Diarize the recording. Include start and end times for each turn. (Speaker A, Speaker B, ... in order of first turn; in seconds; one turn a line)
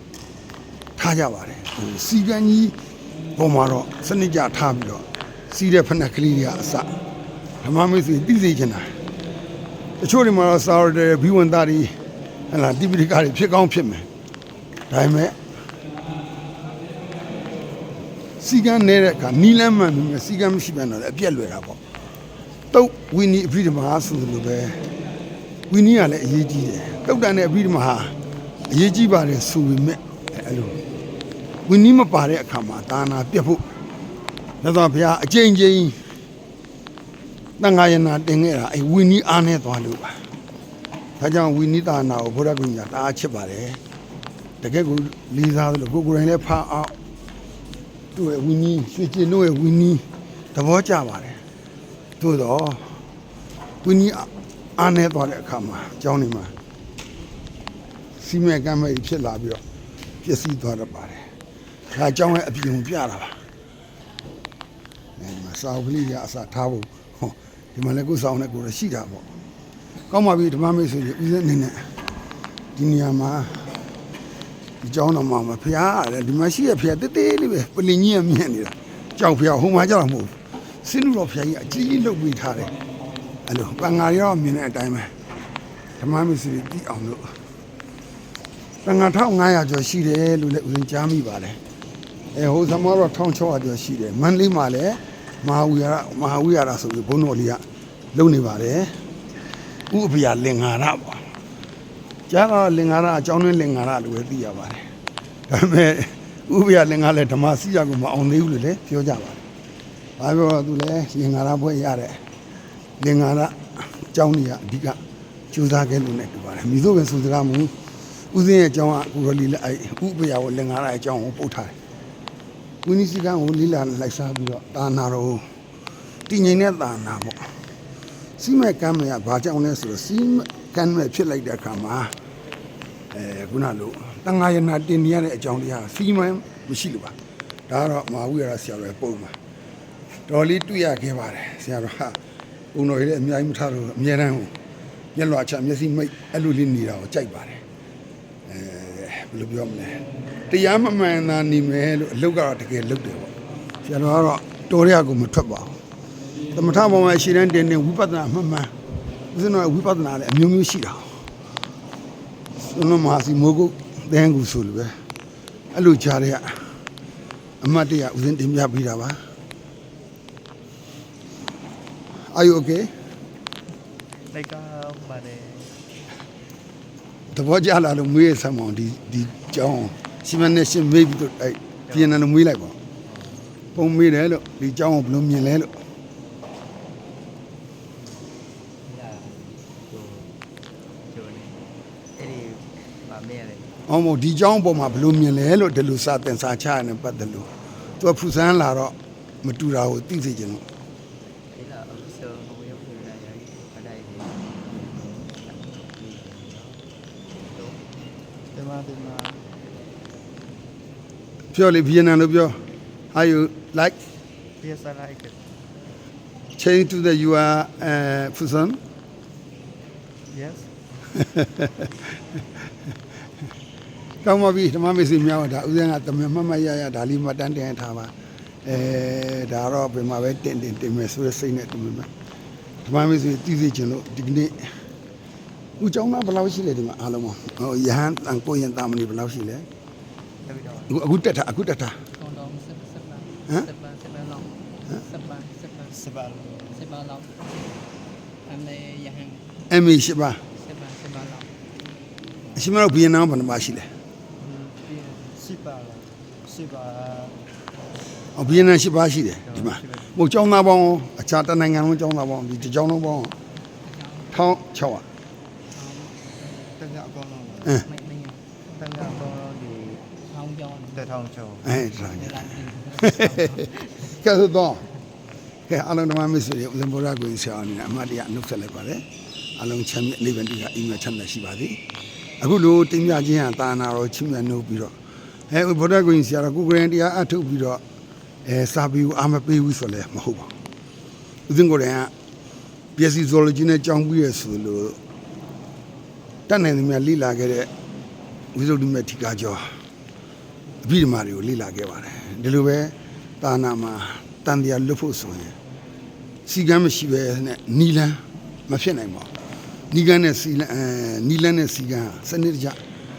Speaker A: 1.0-2.8
Speaker A: 3.3-6.9
Speaker A: 7.6-8.9
Speaker A: 10.0-11.9
Speaker A: 12.5-14.1
Speaker A: 14.9-15.4
Speaker A: 18.4-21.8
Speaker A: 22.7-24.8
Speaker A: 25.7-28.1
Speaker A: 28.7-30.8
Speaker A: 31.6-33.6
Speaker A: 34.6-36.0
Speaker A: 37.6-40.2
Speaker A: 41.2-43.8
Speaker A: 44.6-47.0
Speaker A: 48.1-51.4
Speaker A: 52.2-53.0
Speaker A: 53.8-56.5
Speaker A: 58.2-59.6
Speaker A: 60.2-61.2
Speaker A: 61.9-63.4
Speaker A: 65.2-69.2
Speaker A: 70.1-71.9
Speaker A: 72.8-73.7
Speaker A: 74.8-82.7
Speaker A: 83.5-85.1
Speaker A: 86.0-87.3
Speaker A: 88.8-91.6
Speaker A: 92.3-97.6
Speaker A: 98.1-98.9
Speaker A: 99.9-101.2
Speaker A: 102.3-104.8
Speaker A: 105.5-109.4
Speaker A: 110.2-112.2
Speaker A: 113.0-115.0
Speaker A: 115.5-117.7
Speaker A: 118.3-121.8
Speaker A: 122.8-125.5
Speaker A: 126.3-127.5
Speaker A: 128.4-132.1
Speaker A: 133.1-137.1
Speaker A: 137.7-139.3
Speaker A: 140.3-142.2
Speaker A: 142.7-144.5
Speaker A: 145.1-147.6
Speaker A: 148.5-153.3
Speaker A: 153.8-155.8
Speaker A: 156.5-158.7
Speaker A: 159.3-161.2
Speaker A: 162.6-164.9
Speaker A: 165.7-166.6
Speaker A: 167.6-169.2
Speaker A: 172.3-172.9
Speaker B: 174.3-175.8
Speaker A: 177.3-182.8
Speaker B: 181.9-182.2
Speaker B: 183.0-183.7
Speaker A: 183.7-185.7
Speaker B: 188.0-188.3
Speaker B: 188.8-190.3
Speaker B: 191.0-193.8
Speaker A: 193.9-200.6
Speaker B: 201.5-206.8
Speaker B: 207.4-207.8
Speaker B: 208.5-209.5
Speaker A: 211.5-212.6
Speaker A: 213.1-214.0
Speaker B: 214.6-215.4
Speaker A: 216.6-218.8
Speaker B: 220.3-220.7
Speaker A: 221.2-221.9
Speaker A: 224.2-228.1
Speaker A: 228.6-232.1
Speaker A: 232.8-234.7
Speaker A: 235.8-239.7
Speaker B: 240.4-241.0
Speaker A: 240.9-241.9
Speaker C: 242.2-245.9
Speaker B: 245.9-246.9
Speaker C: 246.7-247.7
Speaker C: 248.4-249.5
Speaker A: 249.7-250.4
Speaker C: 250.5-251.5
Speaker A: 252.5-253.9
Speaker B: 254.4-257.4
Speaker A: 258.3-263.3
Speaker B: 258.5-258.7
Speaker B: 259.4-260.2
Speaker C: 264.0-264.2
Speaker A: 264.3-265.0
Speaker C: 265.7-266.2
Speaker B: 266.6-267.8
Speaker C: 267.8-268.4
Speaker B: 268.6-270.1
Speaker C: 270.3-271.0
Speaker B: 270.9-271.7
Speaker A: 271.6-274.8
Speaker C: 272.1-274.0
Speaker A: 275.7-279.1
Speaker A: 279.6-281.8
Speaker A: 282.4-284.9
Speaker A: 285.5-287.8
Speaker A: 288.4-290.5
Speaker A: 291.5-292.1
Speaker A: 292.9-295.0
Speaker A: 296.5-297.7
Speaker A: 298.5-299.6
Speaker A: 300.8-305.6
Speaker A: 306.4-309.3
Speaker A: 309.9-312.8